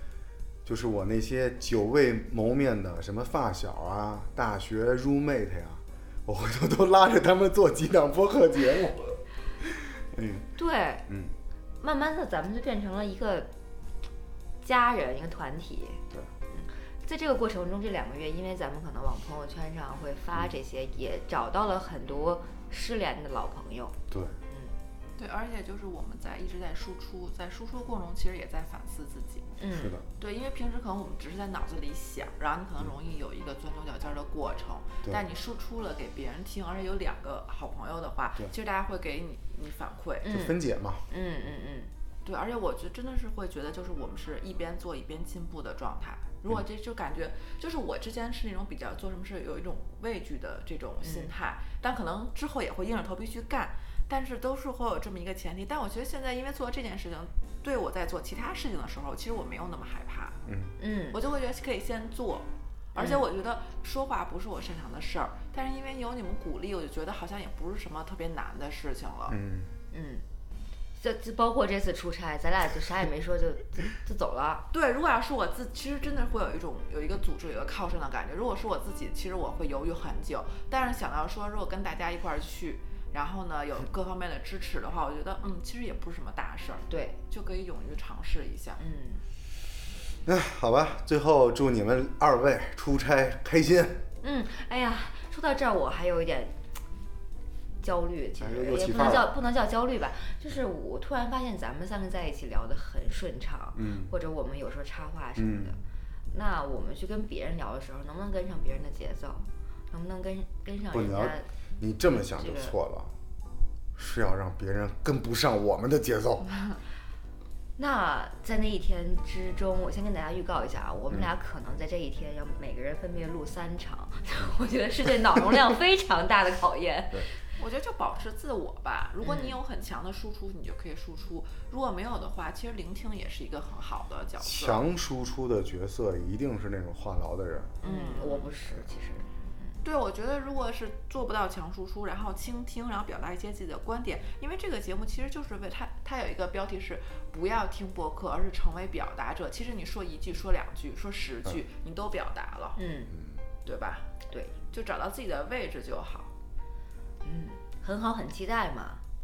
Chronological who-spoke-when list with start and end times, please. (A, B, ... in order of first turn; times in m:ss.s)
0:00.6-0:10.5 A
0:10.6-0:11.0 B
0:11.1-0:11.3 A
0:11.8-0:13.5 B
0:14.6-0:24.0 B
0:24.1-0:24.4 A
0:25.2-0:29.5 C
0:29.6-0:30.0 B
0:29.7-0:30.0 A
0:30.2-0:40.4 C
0:40.2-0:41.9 B
0:40.2-0:41.0 A
0:42.2-1:00.4 C
0:51.0-0:51.3 B
1:00.4-1:00.7 A
1:00.8-1:01.2 B
1:01.1-1:09.4 C
1:03.0-1:03.2 B
1:09.3-1:09.7 A
1:09.9-1:10.2 B
1:11.0-1:14.6 B
1:14.7-1:28.8 C
1:26.9-1:27.2 B
1:28.8-1:29.2 B
1:30.2-1:34.0 A
1:34.2-1:36.6 B
1:37.8-1:45.8 B
1:38.4-1:39.3 A
1:43.8-1:44.1 A
1:45.4-1:45.8 A
1:46.3-1:51.5 B
1:50.9-1:53.1 A
1:52.4-1:52.7 B
1:54.0-1:56.5 A
1:57.8-2:07.4 B
2:07.6-2:14.8 C
2:09.2-2:09.6 B
2:14.4-2:17.8 A
2:17.8-2:18.5 C
2:17.8-2:19.8 B
2:19.8-2:32.8 C
2:32.8-2:33.1 B
2:33.1-2:33.4 A
2:33.6-2:34.1 C
2:34.7-2:36.3 C
2:37.2-2:39.0 B